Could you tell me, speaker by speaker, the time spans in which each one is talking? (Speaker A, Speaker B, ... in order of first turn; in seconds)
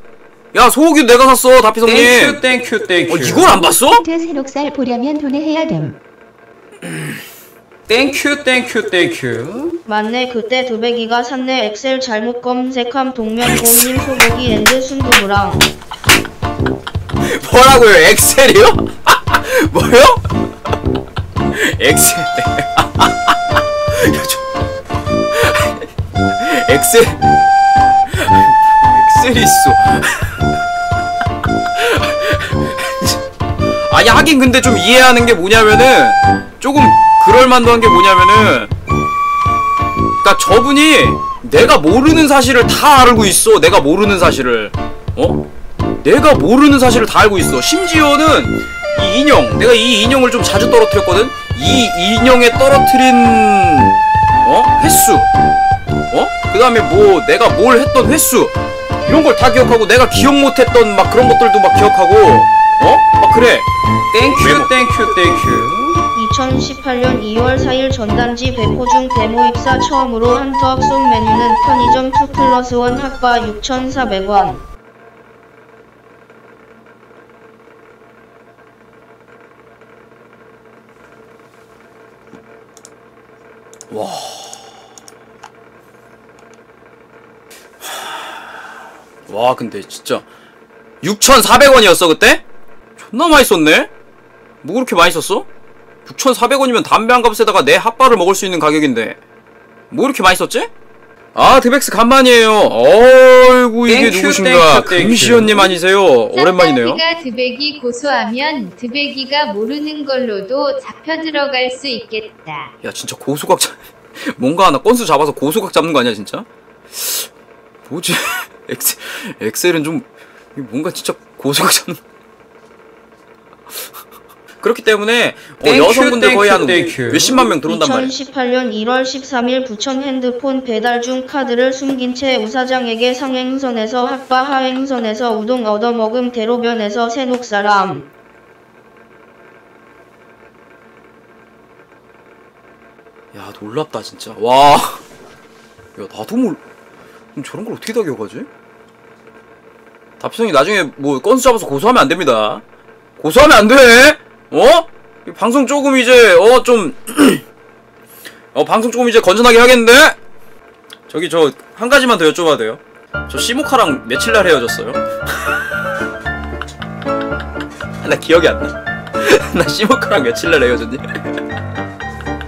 Speaker A: 0.5-2.4, 3.1-4.0, 17.2-20.3, 21.5-24.4, 25.3-27.2, 28.1-30.5, 31.7-33.2, 33.9-38.7, 40.2-45.4, 46.0-55.3, 56.1-58.5, 59.0-63.7, 64.4-64.7, 83.9-84.7, 87.8-88.6, 89.3-90.2, 91.0-92.4, 93.0-93.9, 94.6-95.5, 96.0-99.2, 99.9-100.7, 101.3-107.0, 112.8-117.3, 117.9-122.0, 124.6-128.1, 143.3-145.0, 145.9-146.6, 147.3-148.5, 150.2-152.6, 153.2-157.4, 158.5-160.2, 161.1-165.8, 168.0-171.4
Speaker B: 1.8-3.5, 7.9-9.8, 64.1-66.0, 103.9-105.7, 125.6-127.5
Speaker C: 3.8-6.0
Speaker D: 9.8-15.7, 66.2-74.6, 127.6-138.1
Speaker E: 106.3-112.7